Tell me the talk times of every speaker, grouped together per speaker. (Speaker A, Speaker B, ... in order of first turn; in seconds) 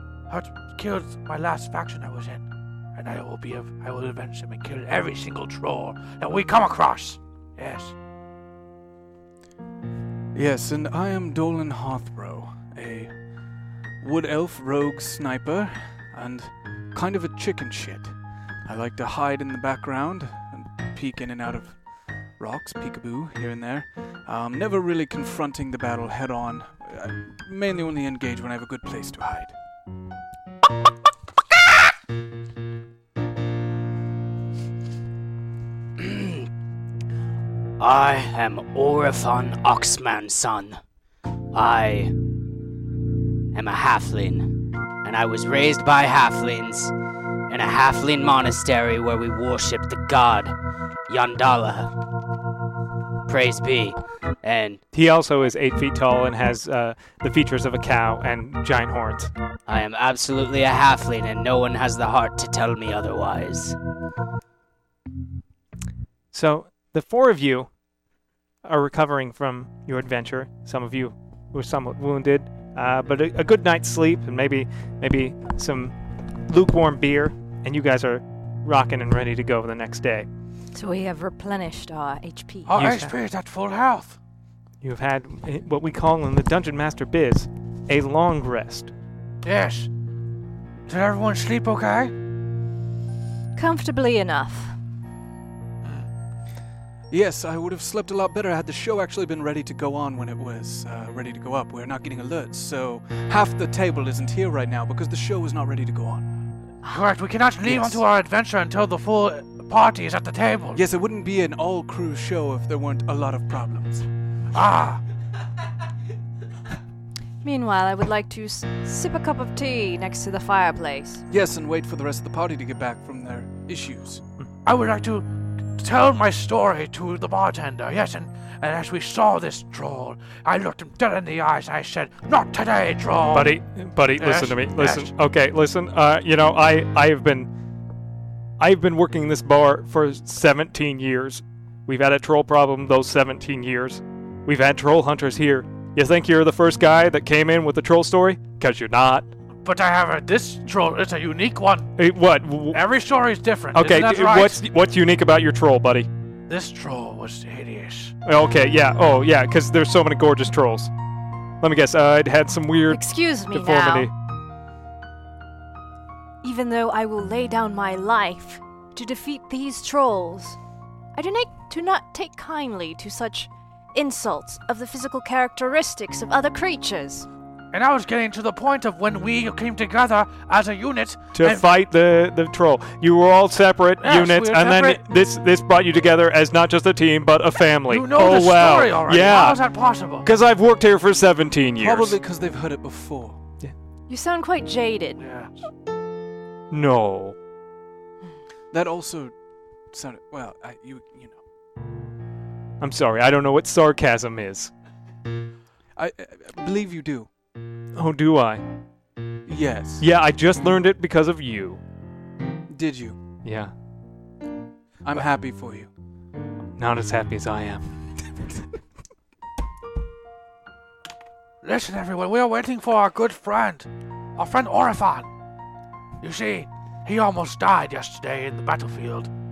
Speaker A: 0.3-2.4, 3.0-7.9, 82.7-84.2, 89.4-89.9, 90.9-92.1, 106.8-110.8, 114.5-115.0, 124.6-135.1, 149.6-151.9, 152.7-154.6, 156.5-158.1, 177.7-181.7, 184.0-185.0, 187.9-190.3, 195.2-195.5, 221.6-225.3, 226.2-229.3
Speaker B: 10.3-13.1, 14.0-18.1, 18.6-21.8, 22.4-29.5, 97.1-106.2, 107.6-108.0, 110.7-114.0, 121.3-124.2, 191.8-193.4, 198.7-199.3, 199.9-201.4, 205.9-207.3, 209.4-210.0, 212.7-213.2, 215.0-215.9
Speaker C: 36.0-36.5, 37.8-40.8, 41.5-42.1, 43.5-46.9, 47.5-50.5, 51.1-51.9, 53.3-54.8, 59.7-63.8
Speaker D: 54.9-59.3, 66.3-67.7, 68.6-75.9, 76.5-80.3, 82.7-83.1, 84.8-88.9, 133.3-137.5, 138.6-149.3, 152.0-152.8, 153.7-156.1, 158.2-160.9, 161.6-164.1, 181.3-189.6, 190.2-192.2, 196.7-197.3, 202.8-204.7, 207.9-208.6, 210.0-211.8, 213.4-213.7, 216.8-217.9
Speaker E: 80.7-82.7, 93.5-94.8, 117.4-121.2, 162.9-164.1, 166.4-170.6, 171.1-177.3, 194.1-195.2